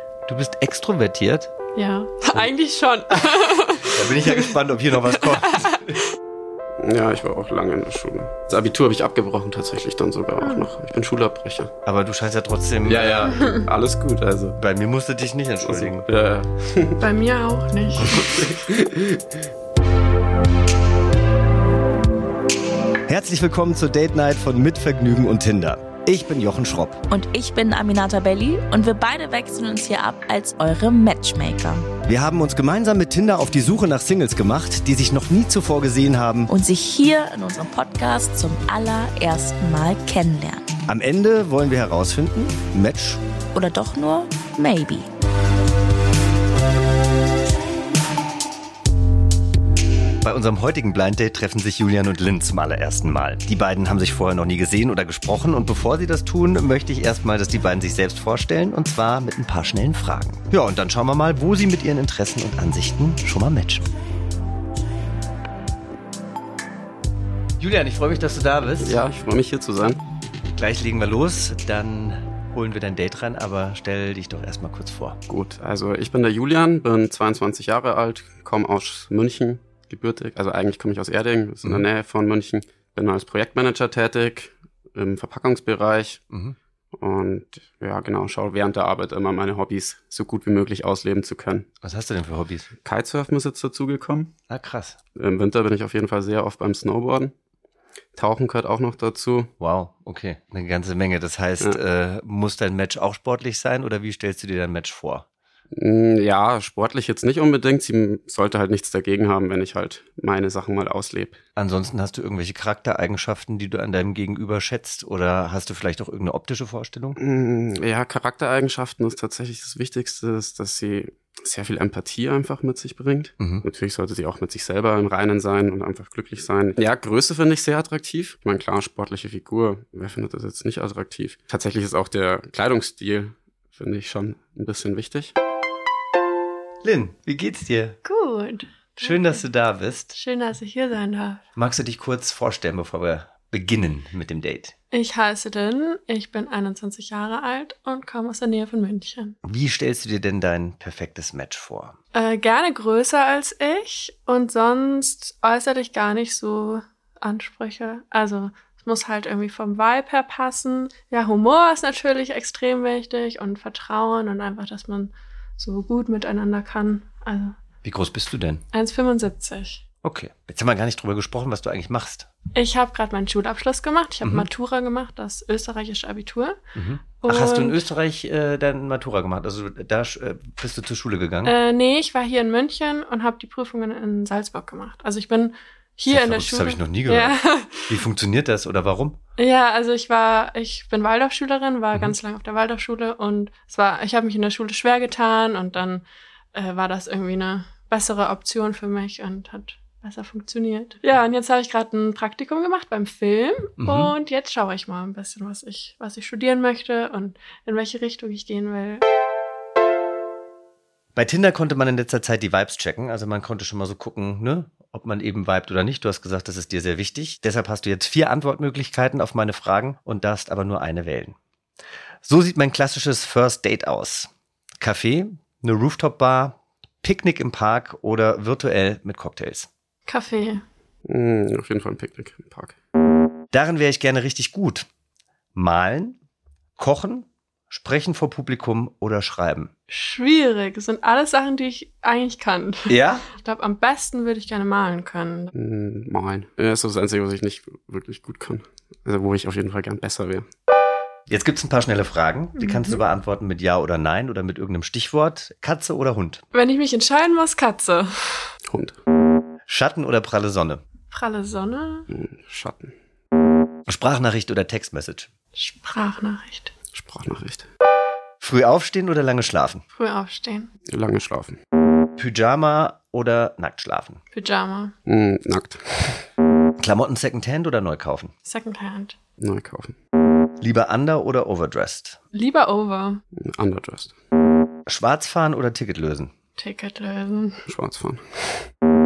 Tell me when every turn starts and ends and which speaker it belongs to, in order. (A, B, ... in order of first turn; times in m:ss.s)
0:00.3-0:01.5 A
0:01.7-0:04.6 B
0:03.8-0:06.0 A
0:05.1-0:05.8 B
0:06.8-0:11.7 C
0:10.4-0:10.7 B
0:11.8-0:13.2 A
0:12.8-0:14.6 C
0:13.4-0:13.6 B
0:14.6-0:16.1 A
0:15.6-0:17.0 C
0:17.0-0:18.4 B
0:18.0-0:19.4 C
0:23.1-0:27.0 A
0:27.1-0:31.9 D
0:32.0-0:36.5 A
0:36.5-0:40.7 D
0:40.9-0:43.2 A
0:43.5-0:45.1 D
0:50.2-1:03.9 A
1:07.6-1:09.0 A
1:08.8-1:10.0 C
1:10.5-1:15.2 A
1:15.3-1:26.2 C
1:26.3-1:26.6 A
1:26.9-1:31.7 C
1:31.8-1:32.7 A
1:32.8-1:34.3 C
1:34.5-1:35.0 A
1:35.1-1:37.3 C
1:38.1-1:39.5 C
1:39.6-1:45.2 A
1:45.7-1:51.4 C
1:51.6-1:57.2 A
1:57.2-2:15.3 C
2:03.4-2:03.6 A
2:16.8-2:18.0 A
2:18.0-2:19.4 B
2:19.0-2:20.1 A
2:20.1-2:21.4 B
2:21.6-2:24.7 A
2:24.9-2:29.4 B
2:29.4-2:32.0 A
2:32.1-2:47.6 B
2:47.8-2:48.6 A
2:48.7-2:49.8 B
2:50.0-2:52.3 A
2:52.5-2:56.6 B
2:56.7-3:01.5 A
2:57.2-2:57.8 B
3:01.4-3:07.9 B
3:06.1-3:09.2 A
3:09.4-3:29.0 B
3:23.8-3:24.1 A
3:31.1-3:41.4 A
3:42.2-3:44.3 A
3:44.8-3:49.7 A
3:50.1-3:50.6 B
3:51.0-3:52.7 C
3:53.5-3:54.8 A
3:55.5-3:56.2 A
3:56.8-3:59.7 A
3:59.9-4:05.5 B
4:02.9-4:03.2 A
4:05.5-4:10.4 C
4:11.3-4:16.4 A
4:12.6-4:13.0 B
4:16.5-4:18.5 B
4:18.7-4:19.0 C
4:19.7-4:20.8 A
4:21.1-4:22.1 B
4:22.1-4:22.9 C
4:23.9-4:25.3 A
4:25.6-4:26.7 B
4:26.9-4:27.6 C
4:28.4-4:29.8 A
4:29.9-4:30.7 B
4:30.9-4:31.6 C
4:32.2-4:34.2 A
4:34.3-4:34.9 B
4:35.0-4:36.2 C
4:36.8-4:38.3 A
4:38.4-4:39.2 B
4:39.4-4:39.9 C
4:40.6-4:42.2 A
4:42.3-4:43.2 B
4:43.4-4:44.1 C
4:44.9-4:46.3 A
4:46.6-4:47.6 B
4:47.6-4:48.7 C